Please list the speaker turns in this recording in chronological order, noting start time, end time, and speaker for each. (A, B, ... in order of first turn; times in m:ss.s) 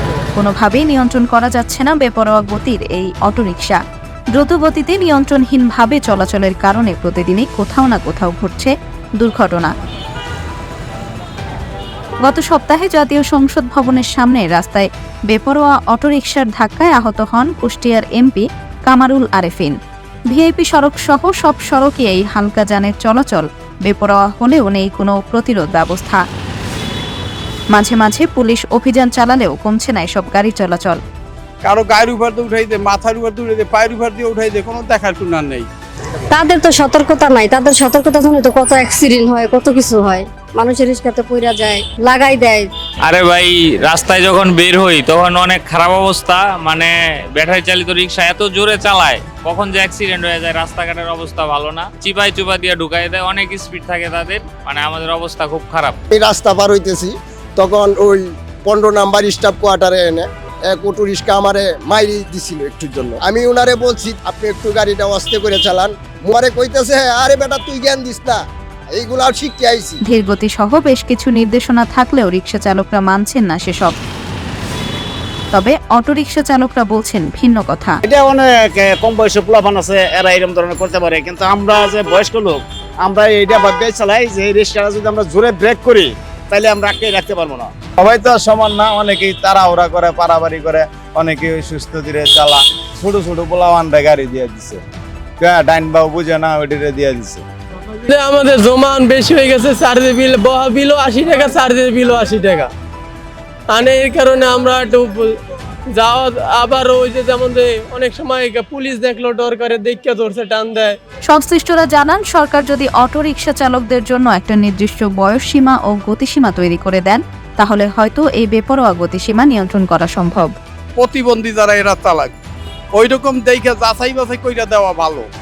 0:00.4-0:03.8 A
0:04.3-0:09.7 A
0:12.2-0:19.8 A
0:20.3-0:26.2 A
0:27.7-0:31.0 A
0:31.6-0:35.7 B
0:36.3-0:42.7 C
0:43.0-0:56.0 D
0:56.1-1:10.0 E
1:10.1-1:14.0 A
1:15.5-1:18.0 A
1:18.0-1:27.7 F
1:28.0-1:34.8 G
1:35.4-1:37.4 G
1:38.0-1:42.7 H
1:43.7-1:45.4 H
1:45.9-1:51.0 H
1:51.3-2:00.5 A
2:01.0-2:02.3 B
2:02.9-2:05.3 B